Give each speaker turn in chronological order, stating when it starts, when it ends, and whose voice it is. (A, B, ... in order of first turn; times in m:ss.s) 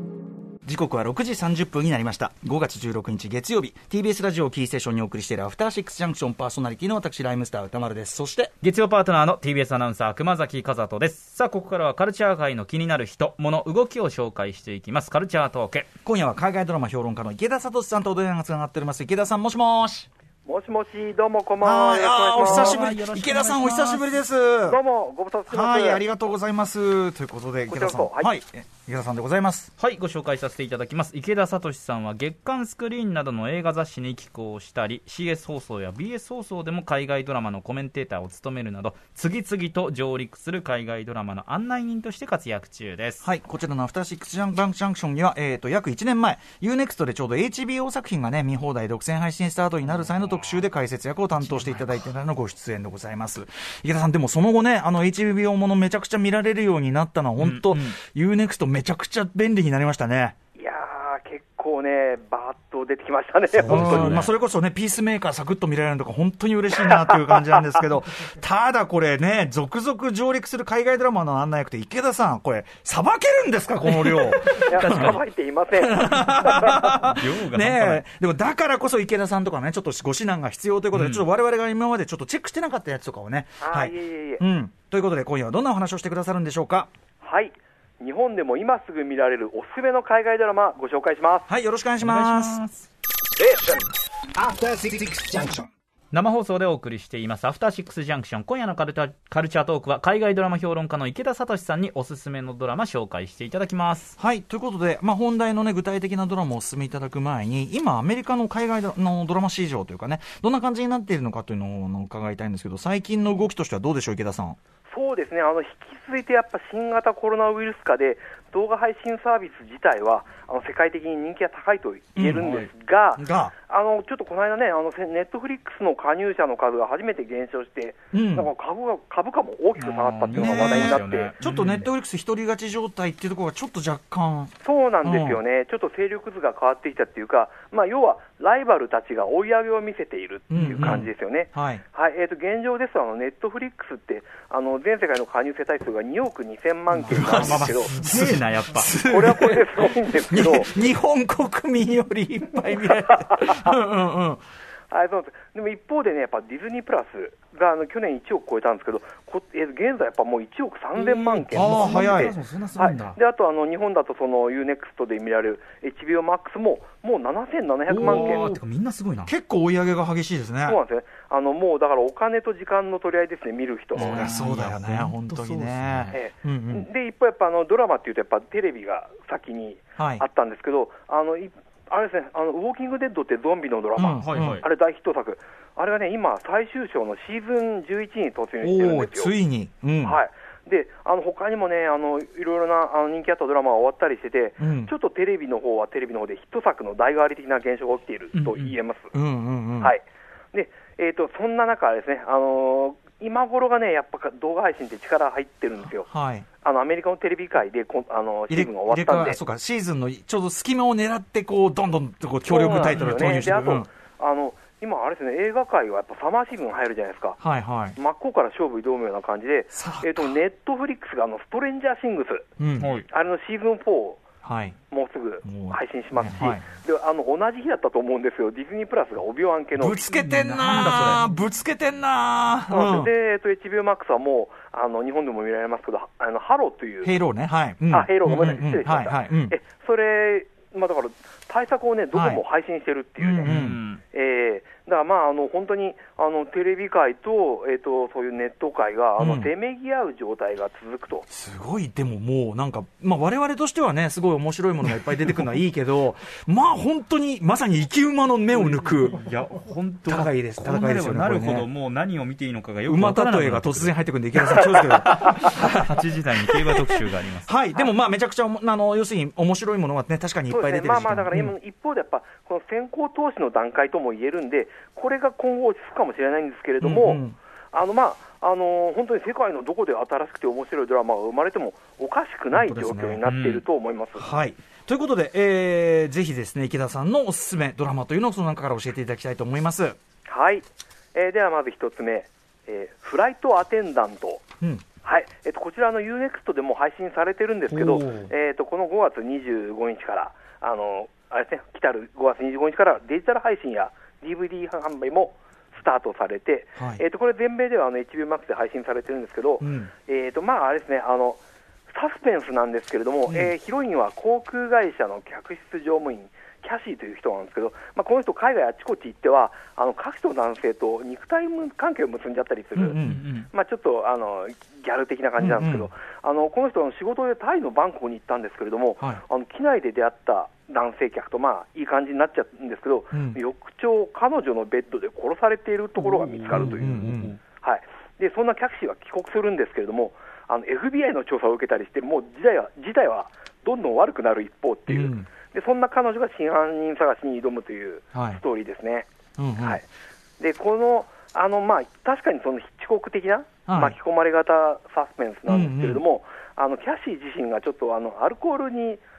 0:00.6-0:08.5 A
0:08.6-0:15.9 B
0:16.0-0:20.1 A
0:20.4-0:22.8 C
0:21.6-0:24.8 A
0:22.4-0:24.2 B
0:24.7-0:26.0 C
0:25.5-0:29.7 A
0:27.7-0:28.3 C
0:29.8-0:43.2 B
0:43.2-1:00.3 A
0:49.8-0:50.6 B
0:51.4-0:51.9 B
0:57.4-0:58.0 B
1:00.6-1:04.2 C
1:03.6-1:15.2 A
1:03.6-1:04.3 B
1:06.8-1:07.5 C
1:13.8-1:15.2 B
1:14.6-1:17.0 C
1:15.7-1:26.9 A
1:16.6-1:18.0 B
1:20.9-1:21.2 B
1:23.6-1:24.4 C
1:27.2-1:31.5 C
1:31.5-1:32.6 A
1:32.0-1:32.9 B
1:33.4-1:35.7 D
1:36.1-1:44.1 B
1:44.2-1:54.6 A
1:54.9-2:11.3 C
2:02.2-2:02.5 A
2:02.4-2:02.7 B
2:03.2-2:03.5 A
2:08.1-2:08.5 A
2:09.8-2:11.9 B
2:10.3-2:15.4 A
2:14.6-2:28.0 C
2:20.5-2:21.8 A
2:20.8-2:21.1 B
2:27.0-2:28.9 B
2:27.0-2:34.4 A
2:29.0-2:30.7 C
2:32.8-2:33.5 C
2:34.9-2:48.5 C
2:41.0-2:43.2 B
2:41.5-2:42.3 A
2:47.9-2:49.3 B
2:47.9-2:48.6 A
2:49.2-2:50.8 A
2:50.7-2:54.3 C
2:54.0-2:56.1 B
2:54.0-2:56.9 A
2:56.1-3:09.3 C
3:00.0-3:00.2 A
3:04.0-3:04.6 A
3:04.2-3:04.6 B
3:08.6-3:10.2 A
3:10.0-3:19.1 C
3:14.6-3:14.9 A
3:18.3-3:18.8 B
3:19.1-3:20.0 A
3:19.8-3:26.1 C
3:26.1-3:26.5 A
3:26.6-3:29.4 C
3:28.5-3:33.9 A
3:32.5-3:37.4 C
3:32.8-3:33.5 B
3:37.4-3:38.0 A
3:38.0-3:42.5 C
3:39.7-3:40.4 A
3:42.6-3:43.0 A
3:42.8-3:43.1 B
3:43.1-3:44.2 C
3:44.4-3:44.8 A
3:44.9-3:50.1 C
3:45.4-3:46.6 A
3:49.8-3:53.1 A
3:50.1-3:51.2 B
3:52.7-3:57.1 C
3:57.0-3:59.6 A
3:57.9-4:03.6 C
4:02.1-4:02.4 A
4:03.2-4:03.8 A
4:03.4-4:04.0 B
4:04.1-4:11.3 C
4:09.2-4:09.5 A
4:11.3-4:19.2 A
4:18.5-4:27.5 B
4:20.1-4:21.7 A
4:22.8-4:26.6 A
4:27.4-4:31.5 A
4:30.5-4:37.2 C
4:36.8-4:37.4 A
4:37.7-4:44.2 C
4:42.5-4:43.2 A
4:43.2-4:43.6 B
4:44.2-4:50.0 A
4:50.2-4:54.4 C
4:55.0-5:11.4 C
4:57.7-4:58.3 A
5:06.8-5:07.0 A
5:09.6-5:09.9 A
5:11.9-5:23.0 C
5:13.3-5:13.5 A
5:22.8-5:23.3 A
5:23.0-5:23.5 B
5:23.5-5:49.1 C
5:25.4-5:25.9 A
5:33.1-5:33.4 A
5:36.0-5:37.4 B
5:36.5-5:37.4 A
5:44.9-5:45.3 A
5:48.1-5:48.4 A
5:49.4-5:49.8 A
5:50.4-5:59.0 C
5:53.7-5:54.0 A
5:55.5-5:56.0 A